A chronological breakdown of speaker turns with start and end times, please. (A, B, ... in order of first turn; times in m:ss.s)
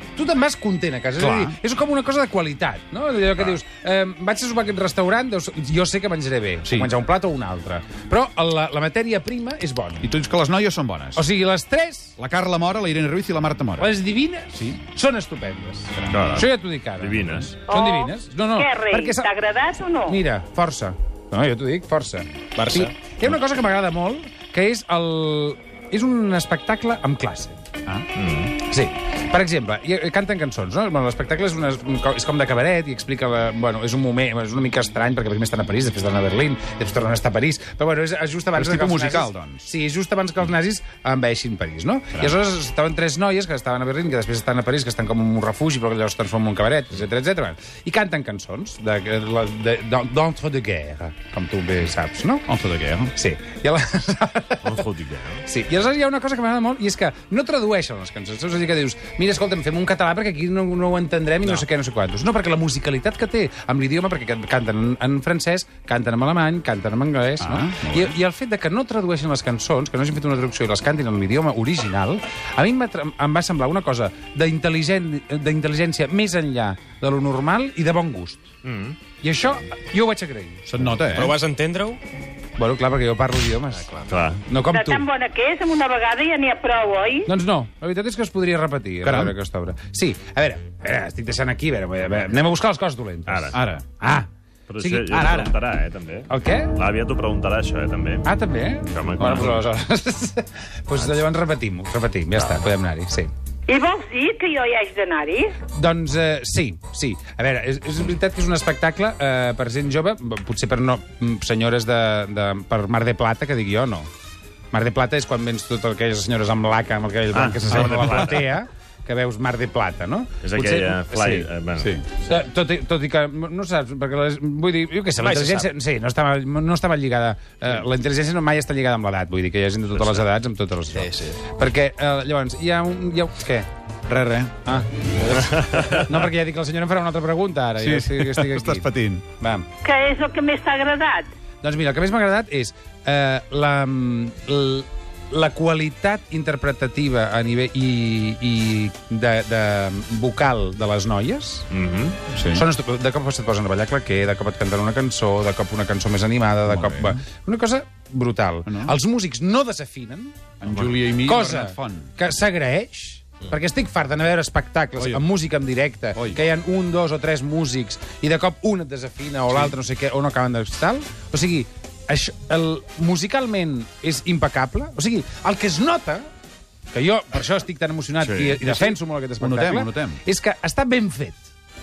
0:00.1-0:10.1 A
0:01.2-0:01.6 B
0:06.6-0:06.9 B
0:10.0-0:11.2 B
0:11.1-0:12.1 A
0:12.2-0:13.9 B
0:13.8-0:19.3 A
0:16.1-0:16.5 C
0:17.0-0:17.5 C
0:17.7-0:20.2 D
0:20.0-0:27.6 A
0:22.6-0:22.9 E
0:28.1-0:28.5 C
0:28.6-0:52.5 A
0:38.5-0:39.7 B
0:52.5-0:53.1 B
0:53.1-0:54.8 A
0:54.6-0:55.4 C
0:55.4-1:18.4 A
1:07.4-1:08.1 B
1:18.6-1:19.0 C
1:19.2-1:20.6 A
1:20.7-1:21.4 B
1:21.1-1:22.0 E
1:22.6-1:25.0 A
1:24.1-1:24.4 C
1:24.7-1:27.3 D
1:27.2-1:35.5 A
1:29.0-1:29.3 B
1:33.3-1:33.6 C
1:33.5-1:33.8 B
1:34.7-1:38.3 C
1:36.3-1:36.7 A
1:38.2-1:43.3 A
1:38.8-1:39.6 C
1:39.2-1:39.6 B
1:42.4-1:42.6 C
1:43.7-1:45.6 D
1:45.7-1:54.1 A
1:54.7-2:01.5 A
1:57.3-1:58.5 C
2:00.4-2:02.0 C
2:01.8-2:02.0 B
2:02.2-2:13.7 A
2:05.2-2:05.7 E
2:11.0-2:11.4 E
2:14.1-2:14.6 B
2:14.6-2:19.7 A
2:15.4-2:15.8 C
2:17.8-2:19.2 B
2:19.8-2:21.3 D
2:21.6-2:31.7 A
2:31.7-2:32.2 C
2:32.3-2:32.7 B
2:32.4-2:40.4 A
2:36.7-2:37.2 B
2:38.6-2:39.0 B
2:40.6-2:42.1 B
2:40.7-2:41.0 C
2:41.2-2:56.2 A
2:45.0-2:45.2 B
2:46.1-2:46.4 B
2:56.9-3:01.5 A
2:58.2-2:58.6 C
2:58.6-3:00.2 B